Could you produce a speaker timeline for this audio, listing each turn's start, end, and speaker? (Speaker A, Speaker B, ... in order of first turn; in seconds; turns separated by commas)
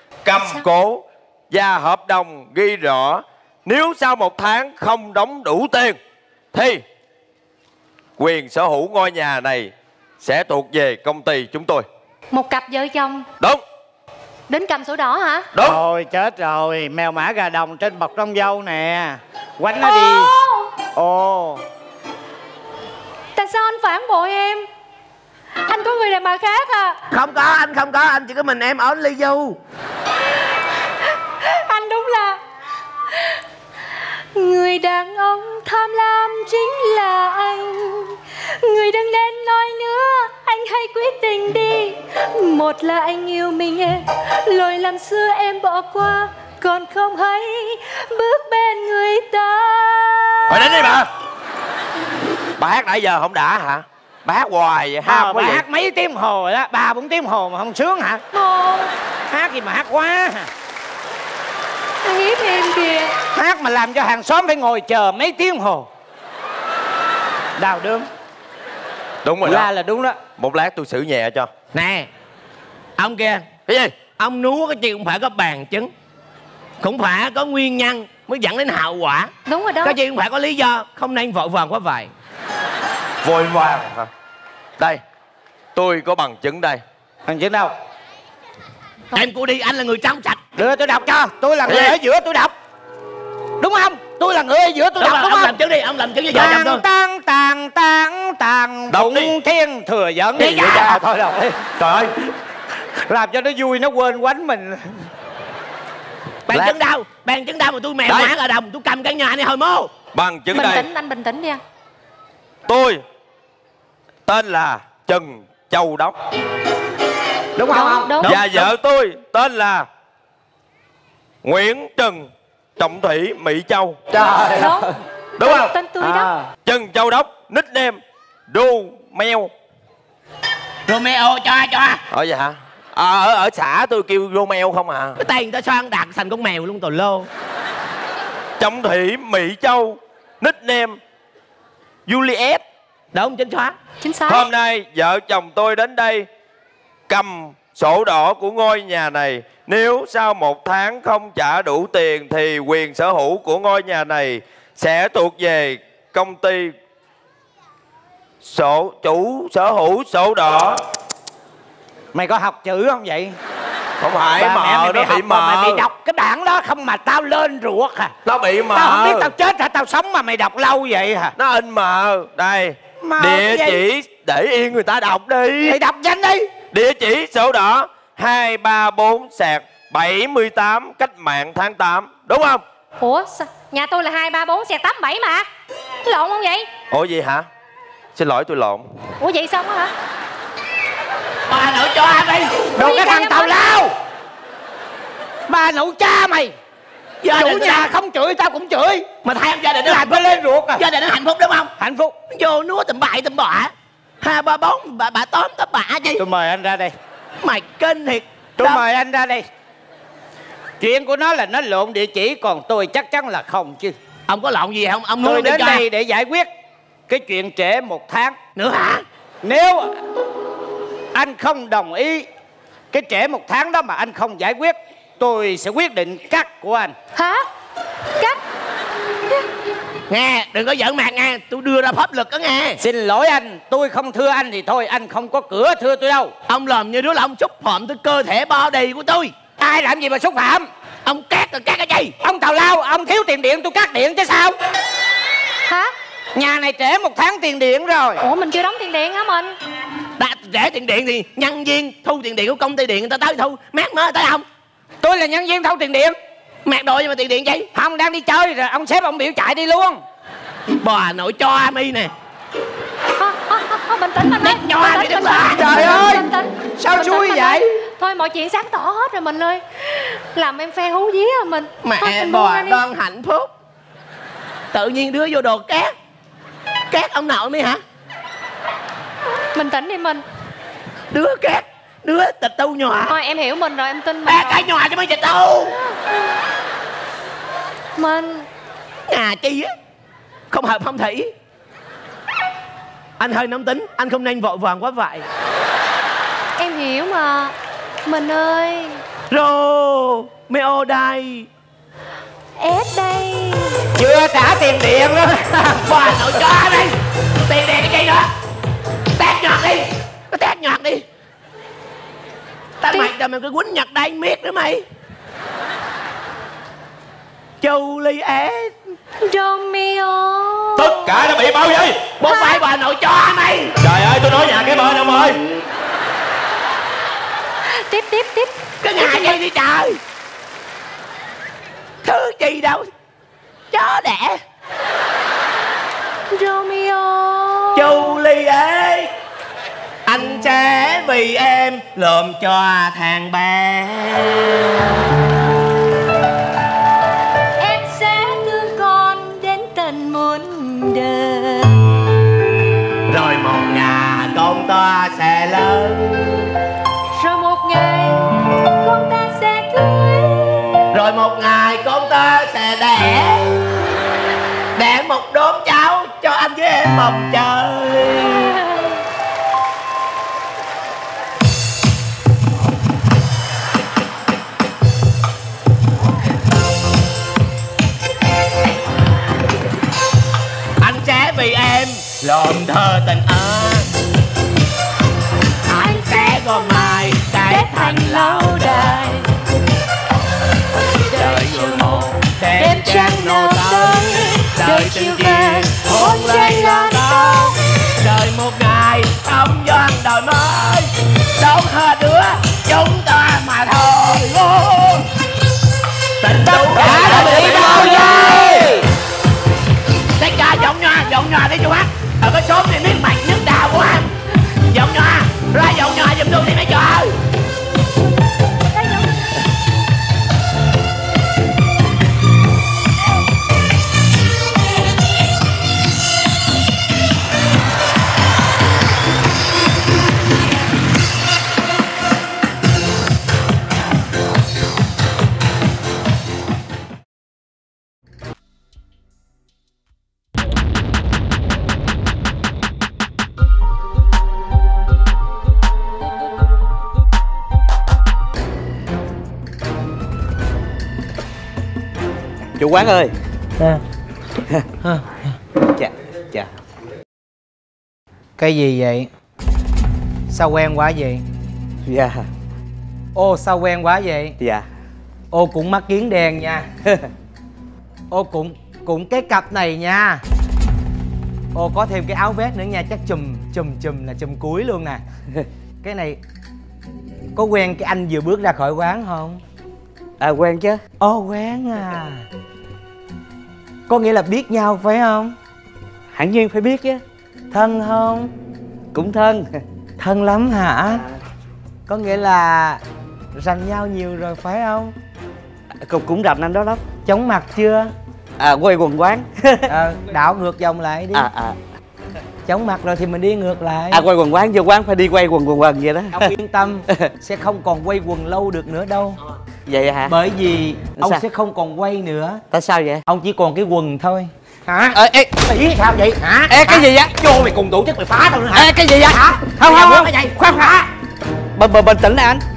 Speaker A: 0.2-6.0, Speaker A: 6.5-6.8, Speaker A: 8.2-11.8, Speaker B: 12.3-13.2, Speaker B: 14.5-15.5, Speaker A: 15.5-15.8, Speaker C: 15.6-20.3, Speaker B: 19.8-20.7, Speaker C: 20.9-21.6, Speaker B: 23.4-24.7, Speaker B: 25.6-27.0, Speaker D: 27.1-29.6, Speaker B: 31.4-32.4, Speaker B: 33.1-33.4, Speaker B: 34.3-50.6, Speaker A: 50.5-51.1, Speaker A: 52.6-55.6, Speaker C: 55.0-58.2, Speaker B: 58.3-58.9, Speaker C: 59.3-60.5, Speaker B: 62.0-63.1, Speaker C: 63.3-65.9, Speaker C: 67.6-68.1, Speaker A: 69.2-69.7, Speaker C: 69.4-70.2, Speaker A: 70.4-71.5, Speaker D: 71.7-72.1, Speaker D: 73.0-73.5, Speaker A: 73.7-73.9, Speaker D: 74.2-75.9, Speaker D: 76.8-79.3, Speaker B: 79.5-80.0, Speaker D: 79.8-82.1, Speaker A: 83.2-84.1, Speaker A: 85.7-86.8, Speaker C: 87.3-87.7, Speaker D: 89.1-90.4, Speaker C: 90.5-92.5, Speaker A: 91.7-91.9, Speaker C: 93.6-95.5, Speaker D: 95.0-96.8, Speaker C: 96.3-102.0, Speaker A: 98.9-99.3, Speaker A: 100.4-100.8, Speaker D: 100.4-100.9, Speaker C: 103.0-105.1, Speaker D: 106.5-109.9, Speaker A: 110.1-110.9, Speaker B: 110.5-111.6, Speaker A: 112.7-113.0, Speaker A: 114.2-116.1, Speaker C: 117.6-118.3, Speaker B: 117.6-118.7, Speaker A: 118.2-119.9, Speaker A: 121.4-124.0, Speaker C: 124.1-124.8, Speaker B: 124.5-126.3, Speaker A: 125.4-125.7, Speaker A: 126.6-129.5, Speaker D: 130.8-132.0, Speaker A: 132.1-135.2, Speaker D: 135.2-137.3, Speaker A: 138.6-141.0, Speaker A: 142.1-142.6, Speaker D: 143.1-143.8, Speaker B: 144.0-144.5, Speaker A: 144.2-146.3, Speaker A: 147.1-156.7, Speaker A: 158.4-160.8, Speaker C: 162.1-163.3, Speaker A: 164.0-165.8, Speaker C: 164.3-168.2, Speaker A: 168.2-169.3, Speaker C: 168.7-171.3, Speaker A: 171.3-175.8, Speaker C: 173.0-173.8, Speaker C: 175.6-176.5, Speaker A: 176.7-182.6, Speaker B: 183.0-185.5, Speaker B: 186.0-186.7, Speaker A: 186.9-187.5, Speaker A: 188.1-188.8, Speaker B: 189.2-189.9, Speaker D: 191.5-192.7, Speaker B: 192.8-193.7, Speaker C: 192.8-193.9, Speaker C: 195.5-196.5, Speaker D: 197.2-197.9, Speaker C: 197.4-199.1, Speaker D: 199.2-201.7, Speaker C: 199.8-200.8, Speaker C: 201.8-202.2, Speaker D: 202.3-206.2, Speaker C: 206.2-206.9, Speaker D: 207.4-208.8, Speaker C: 208.6-209.5, Speaker C: 210.8-214.0, Speaker D: 214.3-215.8, Speaker C: 215.2-216.5, Speaker C: 217.1-218.4, Speaker D: 218.6-219.0, Speaker C: 219.4-220.0, Speaker C: 221.1-222.3, Speaker C: 222.9-226.9, Speaker B: 227.1-227.4, Speaker D: 230.1-232.8, Speaker C: 232.8-236.3, Speaker D: 236.5-239.3, Speaker C: 239.6-240.7, Speaker D: 241.0-242.1, Speaker C: 242.2-244.6, Speaker B: 245.7-245.9, Speaker C: 246.3-248.2, Speaker B: 248.2-249.6, Speaker D: 250.2-254.4, Speaker C: 255.0-256.1, Speaker D: 256.6-257.7, Speaker C: 257.7-260.0, Speaker D: 260.8-262.1, Speaker B: 263.2-272.8, Speaker D: 264.4-266.0, Speaker C: 265.7-266.2, Speaker C: 266.8-267.6, Speaker D: 271.8-273.5, Speaker D: 274.7-275.9, Speaker D: 276.9-277.8, Speaker B: 279.5-280.2, Speaker D: 281.1-283.1, Speaker B: 283.1-284.6, Speaker D: 284.2-285.8, Speaker B: 288.0-288.4, Speaker D: 289.1-289.7, Speaker D: 290.5-291.3, Speaker D: 293.2-295.3, Speaker B: 296.6-297.5, Speaker B: 298.1-299.0, Speaker D: 299.3-301.5, Speaker B: 302.6-303.8, Speaker C: 304.0-306.3, Speaker D: 305.8-308.3, Speaker D: 309.1-311.0, Speaker D: 312.8-314.8, Speaker D: 317.6-318.8, Speaker B: 319.2-321.0, Speaker A: 320.8-322.1, Speaker D: 322.1-323.8, Speaker B: 322.3-322.6, Speaker A: 323.8-325.4, Speaker B: 327.7-329.4, Speaker D: 328.8-330.0, Speaker D: 332.0-332.9, Speaker D: 333.7-334.4, Speaker B: 336.3-337.9, Speaker D: 337.7-339.1, Speaker D: 340.1-344.9, Speaker B: 347.6-351.8, Speaker D: 353.1-356.5, Speaker B: 357.1-360.8, Speaker D: 360.9-363.6, Speaker D: 364.7-368.6, Speaker D: 380.8-383.9, Speaker D: 385.7-389.2, Speaker B: 385.9-389.3, Speaker D: 391.0-405.1, Speaker B: 391.1-397.6, Speaker D: 406.2-408.8, Speaker A: 406.7-408.1, Speaker C: 406.8-408.5, Speaker D: 410.2-414.1, Speaker D: 414.7-417.2, Speaker E: 452.6-453.1, Speaker F: 454.8-455.2, Speaker E: 455.8-456.5, Speaker F: 458.4-459.1, Speaker F: 460.3-461.2, Speaker E: 461.9-462.3, Speaker F: 463.1-464.4, Speaker E: 464.4-464.6, Speaker F: 465.3-466.7, Speaker F: 468.1-470.2, Speaker F: 471.5-475.0, Speaker F: 475.8-476.2, Speaker F: 477.3-479.4, Speaker E: 480.2-480.8, Speaker F: 481.0-482.2, Speaker F: 483.9-485.4, Speaker E: 486.1-487.0, Speaker F: 487.5-488.3, Speaker E: 488.9-489.5, Speaker F: 490.0-491.0, Speaker F: 491.9-492.8, Speaker F: 493.3-494.9, Speaker E: 495.8-496.9, Speaker F: 497.0-497.9, Speaker E: 498.4-499.7, Speaker F: 499.7-501.3, Speaker E: 501.1-501.6, Speaker F: 502.5-504.1, Speaker E: 503.9-506.3, Speaker F: 506.1-509.2, Speaker E: 509.7-510.2, Speaker F: 510.1-512.4, Speaker E: 511.0-511.2, Speaker E: 512.5-513.0, Speaker F: 513.1-520.9, Speaker E: 514.9-515.5, Speaker E: 516.5-517.2, Speaker E: 518.5-520.8, Speaker E: 521.5-522.4